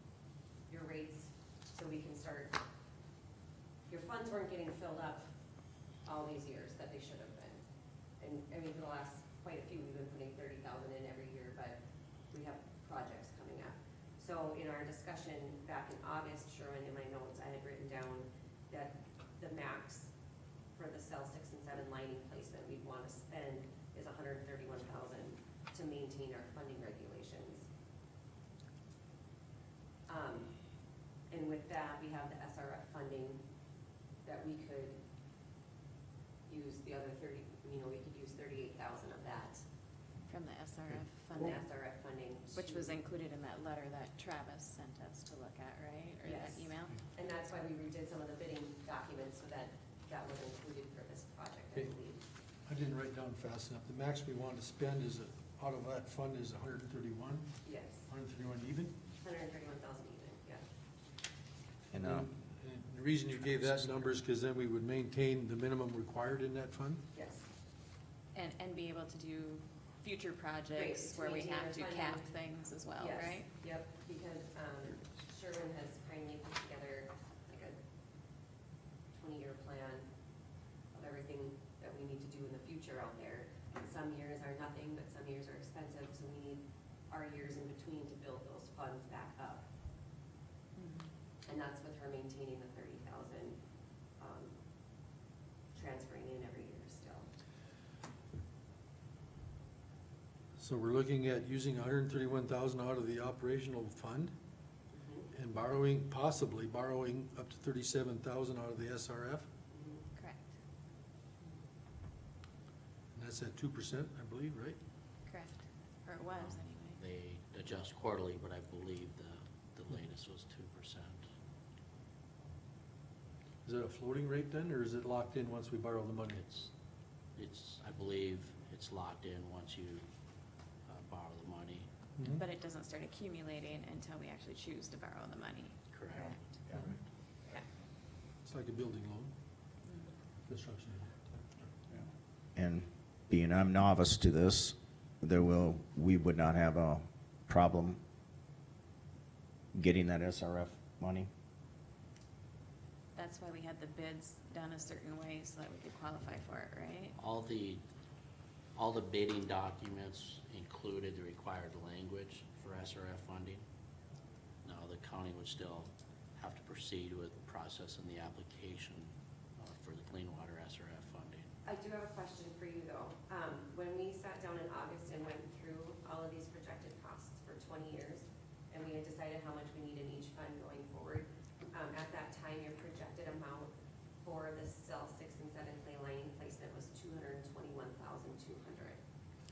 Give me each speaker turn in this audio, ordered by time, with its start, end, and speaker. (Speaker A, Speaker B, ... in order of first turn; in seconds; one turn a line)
Speaker A: 0.7-2.6
Speaker A: 3.9-5.3
Speaker A: 6.0-7.6
Speaker A: 8.2-11.8
Speaker A: 12.3-20.1
Speaker A: 20.7-27.7
Speaker A: 30.1-30.5
Speaker A: 31.3-33.4
Speaker A: 34.2-35.0
Speaker A: 36.5-39.6
Speaker B: 40.3-41.6
Speaker A: 41.3-42.9
Speaker B: 42.5-47.0
Speaker A: 46.2-52.2
Speaker C: 52.6-59.0
Speaker A: 57.6-58.1
Speaker A: 59.2-60.6
Speaker D: 61.9-62.3
Speaker C: 62.0-67.0
Speaker A: 67.1-67.5
Speaker B: 68.3-73.5
Speaker A: 70.7-72.3
Speaker A: 73.0-77.8
Speaker A: 79.1-80.1
Speaker A: 80.9-89.7
Speaker B: 90.8-91.1
Speaker A: 91.5-93.6
Speaker A: 94.2-94.5
Speaker A: 95.7-97.3
Speaker C: 100.6-104.3
Speaker A: 104.9-105.3
Speaker C: 105.3-109.5
Speaker A: 109.7-110.0
Speaker B: 110.2-110.4
Speaker C: 113.1-114.8
Speaker B: 115.2-117.0
Speaker E: 116.4-121.2
Speaker C: 123.6-126.4
Speaker E: 126.3-126.7
Speaker E: 127.3-130.0
Speaker E: 130.9-131.9
Speaker C: 132.2-132.4
Speaker B: 132.3-135.8
Speaker E: 135.9-136.9
Speaker C: 138.4-139.3
Speaker B: 139.9-140.1
Speaker C: 140.4-141.7
Speaker D: 142.6-148.0
Speaker D: 149.7-151.3
Speaker B: 153.1-157.2
Speaker E: 157.2-157.8
Speaker E: 158.8-163.6
Speaker E: 164.6-171.5
Speaker A: 171.6-183.7
Speaker A: 184.2-189.0